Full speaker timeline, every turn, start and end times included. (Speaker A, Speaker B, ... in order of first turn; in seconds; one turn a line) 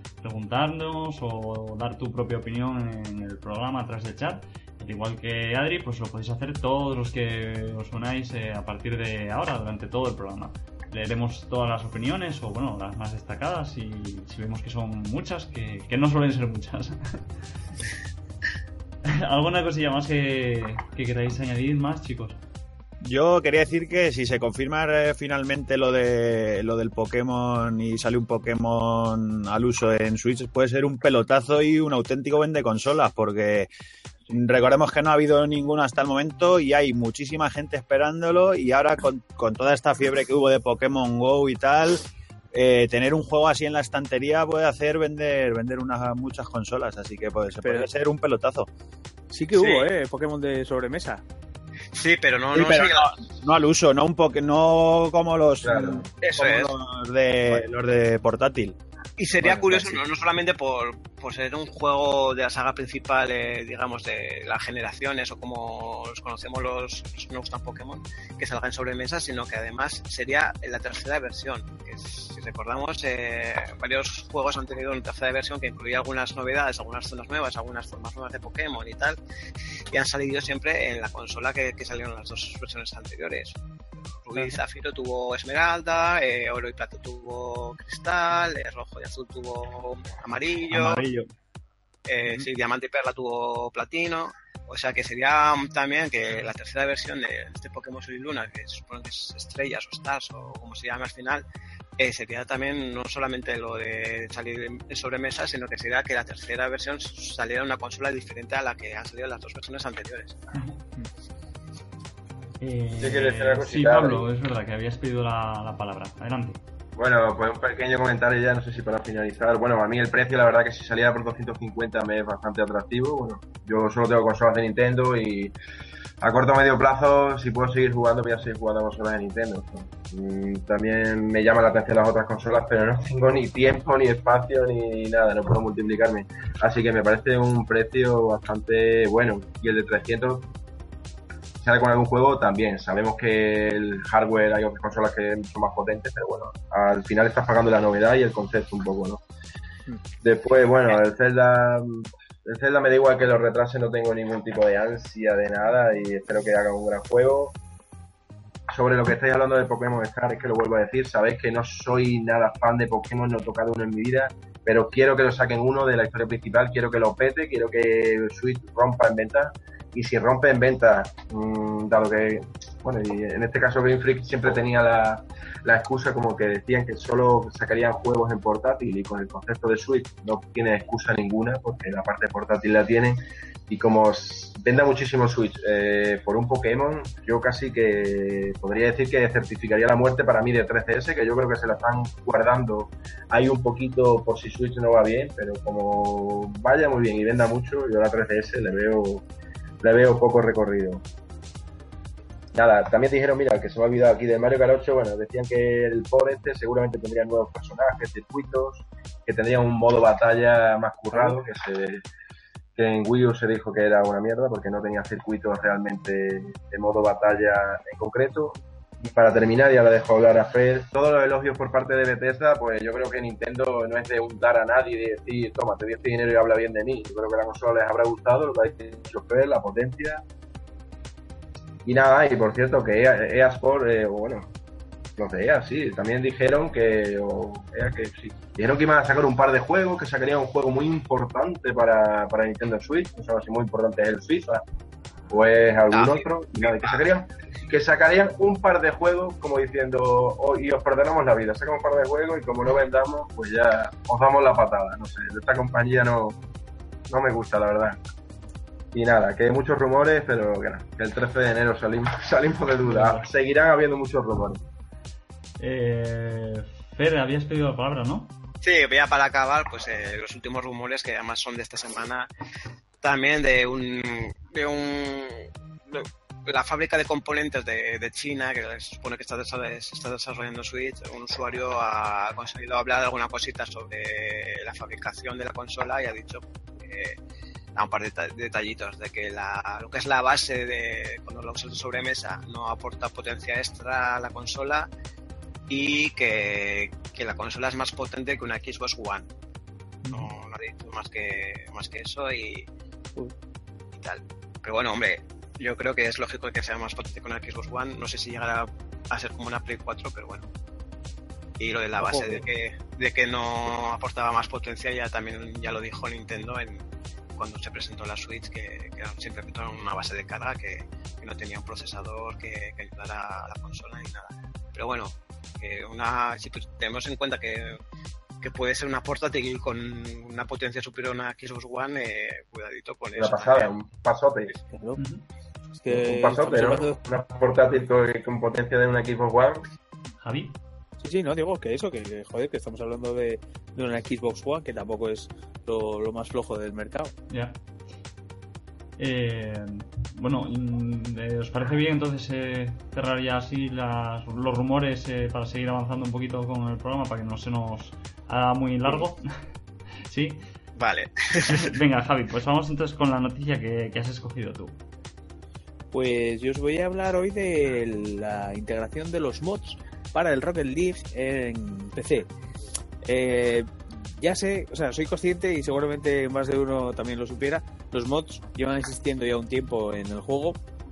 Speaker A: 0.2-17.2
Speaker A: 19.1-22.4
Speaker B: 23.0-33.7
Speaker B: 34.3-48.7
Speaker C: 47.6-47.9
Speaker C: 49.3-51.2
Speaker D: 49.5-49.9
Speaker D: 51.9-53.1
Speaker B: 52.5-58.8
Speaker E: 55.6-56.1
Speaker D: 56.2-56.7
Speaker D: 59.2-79.2
Speaker B: 59.4-59.9
Speaker D: 79.9-83.6
Speaker D: 84.2-91.0
Speaker B: 90.7-91.3
Speaker D: 92.1-101.4
Speaker D: 102.0-110.4
Speaker A: 112.6-116.6
Speaker E: 113.0-114.2
Speaker E: 117.0-125.5
Speaker E: 126.2-140.5
Speaker E: 141.6-149.2
Speaker E: 150.2-157.6
Speaker E: 158.7-199.3
Speaker E: 199.8-201.1
Speaker E: 202.5-212.0
Speaker E: 212.8-230.2
Speaker E: 231.8-234.5
Speaker E: 235.2-244.6
Speaker E: 245.3-256.4
Speaker D: 245.9-247.0
Speaker E: 257.1-258.0
Speaker E: 258.9-264.6
Speaker A: 262.9-263.2
Speaker A: 265.6-268.3
Speaker D: 268.6-272.3
Speaker D: 273.0-287.2
Speaker D: 287.8-294.9
Speaker D: 295.7-299.3
Speaker C: 300.1-300.3
Speaker D: 300.1-302.7
Speaker D: 303.9-310.5
Speaker D: 311.6-327.8
Speaker C: 312.0-312.4
Speaker D: 328.4-333.7
Speaker E: 333.2-334.6
Speaker C: 334.6-335.0
Speaker A: 335.0-335.2
Speaker C: 335.7-337.0
Speaker E: 335.9-339.7
Speaker A: 340.2-340.6
Speaker C: 341.0-347.1
Speaker A: 347.3-347.6
Speaker A: 349.0-359.3
Speaker A: 360.1-360.4
Speaker D: 360.8-361.7
Speaker A: 361.4-364.8
Speaker C: 365.9-372.3
Speaker C: 373.1-380.6